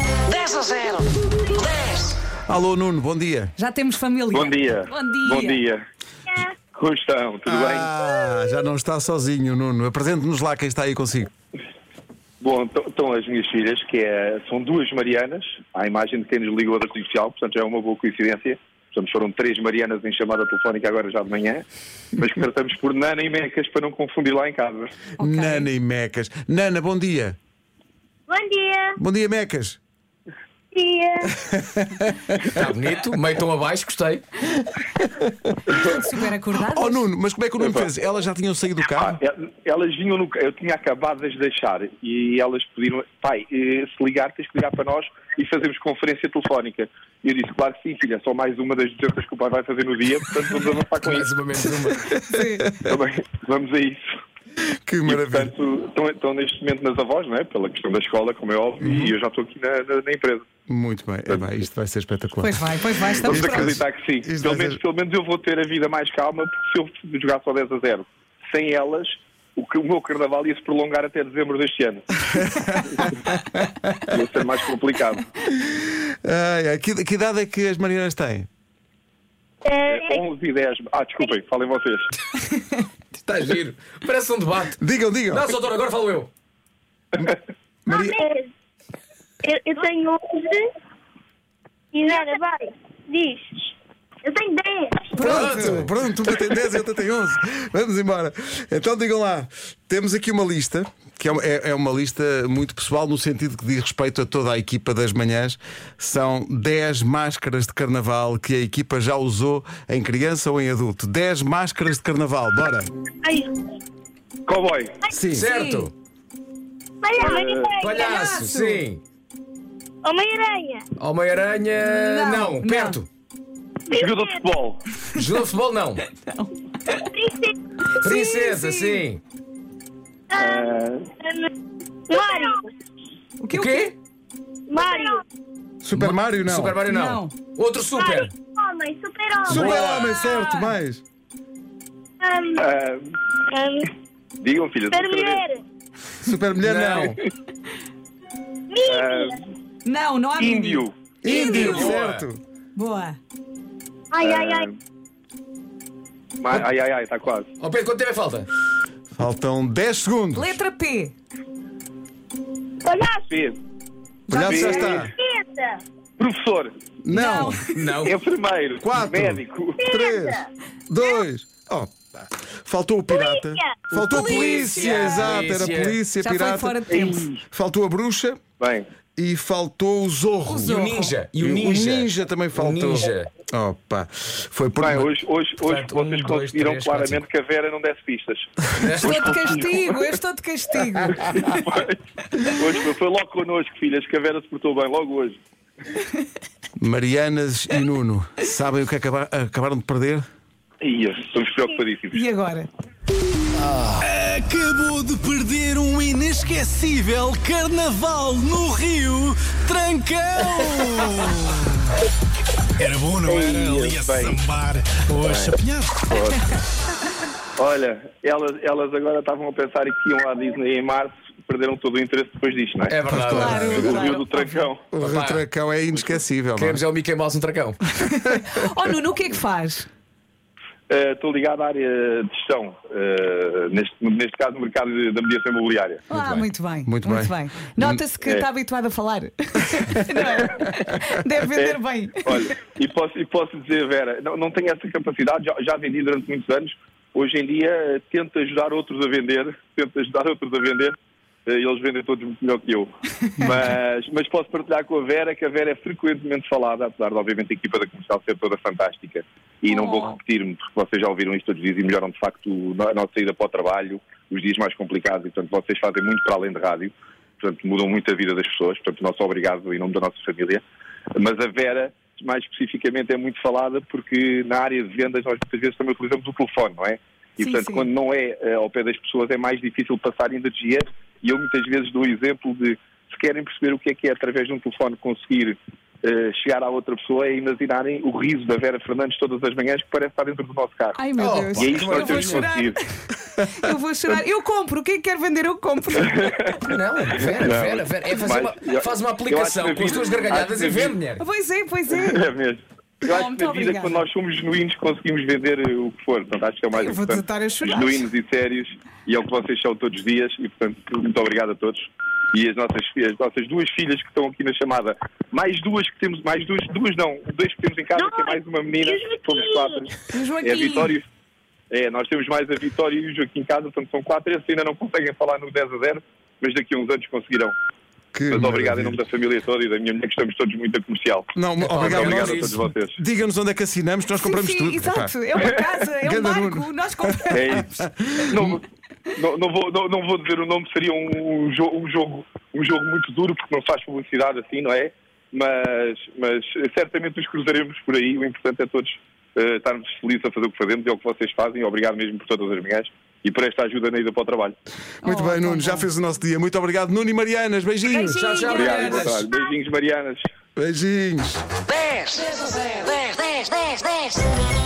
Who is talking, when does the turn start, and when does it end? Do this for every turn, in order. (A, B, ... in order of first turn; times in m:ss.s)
0:00.2-0:02.2 A
0:02.5-0:03.5 B
0:03.6-0:05.6 C
0:04.3-0:05.8 D
0:06.7-0:07.9 D
0:07.5-0:11.3 B
0:12.4-0:24.9 D
0:25.2-0:27.4 B
0:25.2-0:25.7 C
0:28.3-0:29.0 E
0:29.0-0:29.8 B
0:30.7-0:31.3 E
0:31.4-0:32.4 B
0:32.5-0:34.2 F
0:35.0-0:35.5 B
0:36.0-0:37.0 C
0:36.6-0:39.2 B
0:37.6-0:37.9 D
0:39.0-0:51.3 D
0:51.0-0:52.1 F
0:52.4-0:52.6 C
0:52.8-0:54.0 D
0:54.9-0:55.5 B
0:55.0-1:00.5 D
0:58.8-0:59.1 B
1:00.7-1:02.7 B
1:02.4-1:03.7 C
1:03.2-1:12.1 D
1:03.2-1:04.8 B
1:12.3-1:14.1 B
1:14.1-1:15.3 D
1:15.6-1:18.5 B
1:19.6-1:20.2 E
1:19.9-1:22.1 D
1:23.1-1:24.8 F
1:24.8-1:25.5 B
1:25.3-1:26.3 F
1:27.2-1:28.2 B
1:27.9-1:28.5 E
1:29.4-1:30.7 E
1:31.9-1:33.7 E
1:34.2-1:35.1 E
1:35.1-1:35.9 C
1:35.2-1:52.9 B
1:35.2-1:35.9 F
1:53.2-1:53.5 E
1:54.5-1:55.0 D
1:55.1-1:55.5 B
1:55.3-1:55.9 F
1:55.5-1:55.9 C
1:57.0-1:58.2 E
1:57.2-1:58.0 D
1:57.8-1:59.0 F
1:58.1-1:58.8 C
2:00.0-2:00.8 E
2:01.0-2:03.1 F
2:01.8-2:03.0 C
2:03.9-2:04.4 E
2:03.9-2:04.8 D
2:05.2-2:06.0 F
2:07.1-2:08.6 E
2:08.0-2:09.2 F
2:10.3-2:11.5 E
2:10.4-2:11.1 D
2:12.1-2:12.6 E
2:13.4-2:13.9 C
2:13.5-2:13.9 F
2:14.7-2:15.2 E
2:15.8-2:16.8 B
2:16.0-2:18.3 F
2:16.9-2:17.3 C
2:18.0-2:20.1 E
2:19.5-2:21.0 B
2:19.5-2:20.1 F
2:20.0-2:20.7 C
2:22.2-2:22.7 E
2:22.6-2:23.2 D
2:23.5-2:23.8 E
2:24.4-2:25.5 D
2:24.9-2:25.6 E
2:26.2-2:27.2 B
2:26.6-2:27.2 F
2:28.7-2:29.4 E
2:28.9-2:29.4 D
2:29.8-2:31.9 C
2:30.4-2:30.9 D
2:31.2-2:32.4 B
2:31.3-2:32.3 F
2:32.8-2:33.2 C
2:34.1-2:34.7 E
2:34.2-2:34.8 D
2:36.4-2:37.5 D
2:37.6-2:38.5 F
2:39.2-2:40.6 B
2:40.4-2:41.1 C
2:42.9-2:43.3 E
2:43.3-2:43.6 D
2:44.3-2:45.1 B
2:44.3-2:45.1 D
2:44.6-2:45.8 E
2:46.2-2:46.7 D
2:47.0-2:47.6 B
2:47.1-2:47.6 C
2:47.7-2:48.1 F
2:48.0-2:49.9 D
2:48.8-2:56.8 B
2:49.8-2:50.4 E
2:53.1-2:53.8 E
2:54.0-2:56.0 F
2:54.1-2:55.2 C
2:56.2-2:57.2 C
2:56.9-2:57.4 D
2:57.4-2:58.4 B
2:58.6-2:58.9 D
2:59.2-3:05.1 B
3:00.5-3:01.1 C
3:00.6-3:03.3 F
3:04.8-3:10.0 D
3:05.6-3:07.2 F
3:08.8-3:09.6 F
3:09.1-3:11.4 C
3:11.2-3:12.0 D
3:12.5-3:15.4 D
3:16.8-3:20.2 B
3:20.8-3:22.2 D
3:22.1-3:22.7 C
3:23.6-3:23.9 F
3:24.0-3:31.9 G
3:32.8-3:36.1 G
3:33.2-3:34.4 D
3:35.2-3:36.5 D
3:37.6-3:44.8 D
3:42.9-3:43.8 F
3:43.1-3:44.1 B
3:43.4-3:44.7 C
3:44.9-3:46.8 B
3:45.0-3:45.4 F
3:46.6-3:47.8 F
3:48.4-3:49.9 C
3:50.9-3:56.0 D
3:56.1-4:02.2 C
3:56.1-3:58.0 B
3:58.2-3:58.5 D
4:00.2-4:00.5 D
4:01.5-4:11.0 D
4:11.5-4:30.6 D
4:19.7-4:20.2 C
4:31.1-4:51.0 D
4:37.4-4:37.9 C
4:51.0-4:52.8 C
4:51.2-4:52.5 F
4:51.5-4:52.8 D
4:53.6-4:56.2 C
4:56.0-4:56.5 D
4:56.6-5:01.2 F
4:57.4-5:01.0 D
5:01.2-5:02.2 C
5:01.9-5:21.1 D
5:03.1-5:04.0 C
5:06.8-5:07.9 C
5:18.0-5:19.9 E
5:20.1-5:21.0 C
5:21.7-5:27.6 D
5:28.1-5:29.0 B
5:28.3-5:31.3 D
5:31.4-5:35.2 B
5:31.6-5:32.6 F
5:31.8-5:33.0 D
5:34.2-5:37.3 C
5:35.4-5:35.6 D
5:36.0-5:38.6 B
5:37.3-5:38.6 D
5:39.2-5:54.6 D
5:55.0-5:55.8 C
5:55.0-5:58.5 B
5:57.9-5:59.0 C
5:58.1-5:59.3 F
5:58.5-6:00.3 D
6:00.6-6:01.4 B
6:01.7-6:04.3 A